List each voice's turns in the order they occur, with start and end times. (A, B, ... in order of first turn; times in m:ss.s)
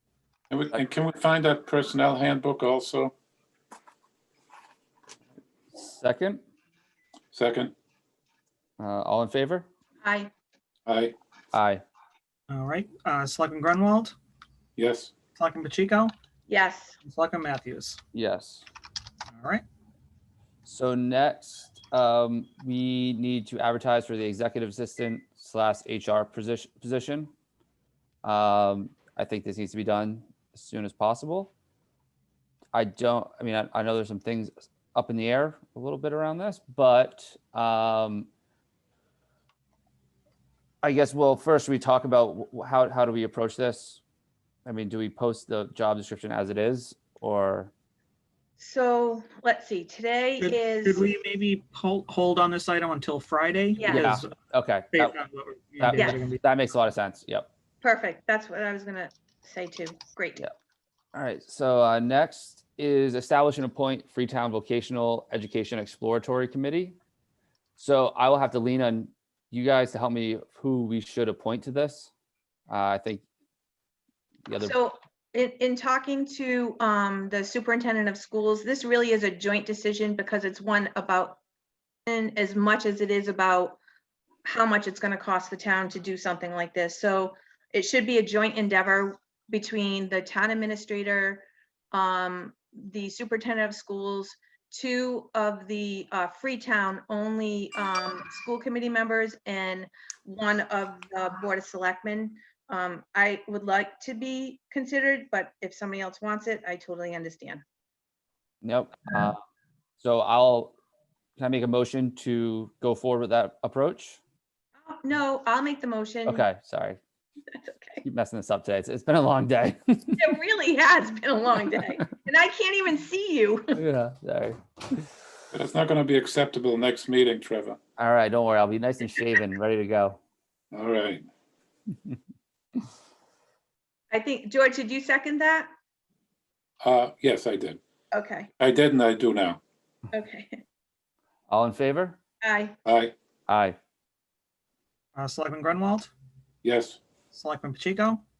0:00.5-0:03.1 A
0:05.7-0:06.4 B
0:07.3-0:07.7 A
0:08.8-0:09.7 B
0:10.0-0:10.3 C
0:10.8-0:11.1 A
0:11.5-0:11.8 B
0:12.5-0:14.1 D
0:14.8-0:15.1 A
0:15.4-0:16.1 D
0:16.5-0:17.0 C
0:17.0-0:18.0 D
0:18.1-0:18.7 B
0:19.3-0:19.6 D
0:20.6-0:27.3 B
0:28.2-0:31.5 B
0:32.7-0:38.3 B
0:40.8-0:44.0 B
0:44.6-0:47.7 B
0:48.6-0:51.0 C
0:50.4-0:54.3 D
0:53.8-0:54.2 C
0:53.9-0:55.1 B
0:54.9-0:56.4 D
0:55.8-0:57.5 B
0:55.9-0:56.2 C
0:57.8-1:00.4 C
1:01.1-1:07.0 B
1:07.8-1:12.1 B
1:12.7-1:13.2 B
1:14.4-1:14.8 B
1:14.6-1:21.4 C
1:22.0-1:23.8 C
1:24.4-1:47.6 C
1:48.6-1:49.4 B
1:50.0-1:50.8 B
1:51.4-1:54.2 B
1:54.8-1:56.4 C
1:56.2-1:57.0 B
1:57.5-1:58.0 C
1:58.0-2:00.3 B
2:00.2-2:03.8 C
2:03.7-2:05.1 B
2:05.5-2:07.8 A
2:08.0-2:10.2 B
2:10.7-2:11.2 A
2:14.1-2:15.7 C
2:16.8-2:17.8 A
2:18.1-2:18.5 C
2:18.6-2:19.6 A
2:20.1-2:20.6 C
2:21.5-2:22.2 B
2:22.4-2:22.8 C
2:22.8-2:23.1 A
2:23.5-2:23.8 B
2:25.1-2:26.1 D
2:26.6-2:27.0 A
2:27.3-2:28.2 D